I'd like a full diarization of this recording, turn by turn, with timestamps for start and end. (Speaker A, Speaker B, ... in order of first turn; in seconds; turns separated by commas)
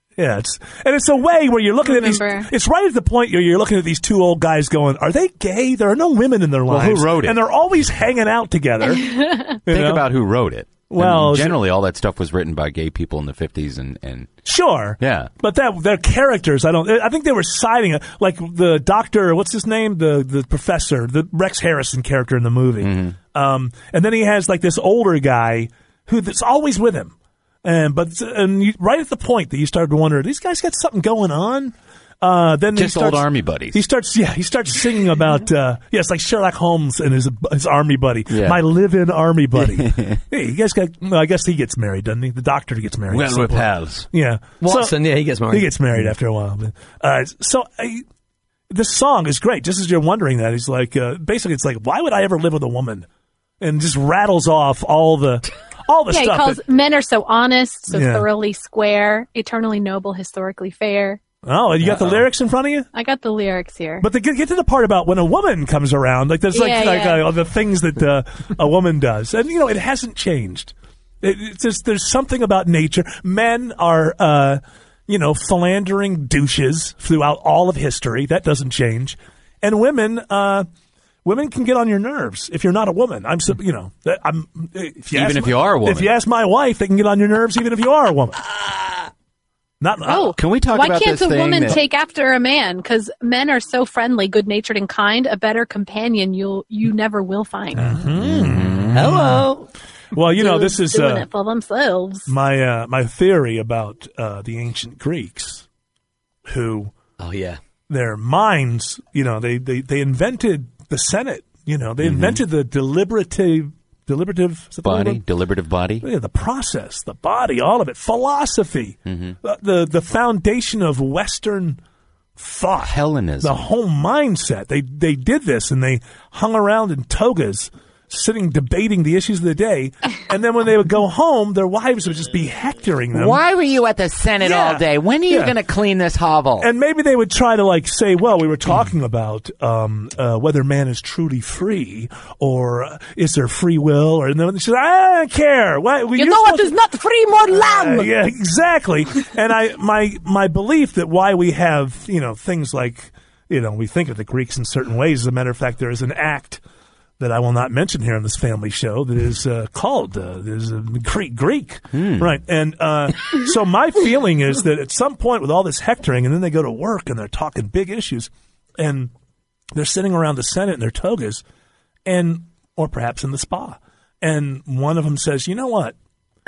Speaker A: 0.2-9.1, Speaker B: 1.8-2.5, Speaker C: 6.7-7.4, Speaker B: 8.8-9.6, Speaker A: 9.7-10.1, Speaker C: 9.7-14.4, Speaker A: 10.9-11.6, Speaker A: 14.4-27.1, Speaker C: 15.0-15.3, Speaker C: 22.8-23.1, Speaker A: 27.6-48.0, Speaker C: 32.7-33.8, Speaker C: 38.3-38.6, Speaker C: 39.6-40.2, Speaker C: 43.1-44.1, Speaker D: 44.6-45.7, Speaker A: 48.7-53.0, Speaker A: 53.6-56.6, Speaker B: 56.1-61.2, Speaker A: 57.9-58.3, Speaker A: 61.4-62.9, Speaker B: 62.9-64.0, Speaker A: 64.0-80.7, Speaker B: 66.5-67.3, Speaker A: 81.2-88.4, Speaker C: 85.1-86.1, Speaker A: 89.8-90.3, Speaker B: 90.0-98.0, Speaker C: 90.3-91.8, Speaker A: 97.8-99.5, Speaker C: 98.2-99.2, Speaker D: 98.9-99.7, Speaker A: 100.1-101.2, Speaker B: 100.3-102.3, Speaker A: 102.3-105.6, Speaker A: 106.5-106.9, Speaker D: 107.2-107.6, Speaker A: 107.9-115.2, Speaker C: 112.0-112.4, Speaker C: 114.8-116.0, Speaker A: 116.0-121.8, Speaker C: 119.0-119.4, Speaker A: 122.4-133.4, Speaker C: 122.8-123.6, Speaker E: 133.1-134.8, Speaker C: 134.0-135.4, Speaker A: 134.4-135.6, Speaker E: 135.3-136.7, Speaker A: 136.6-146.7, Speaker B: 146.2-148.1, Speaker A: 147.5-156.6, Speaker A: 157.2-169.1, Speaker C: 161.9-162.3, Speaker A: 169.7-171.4, Speaker A: 172.1-175.9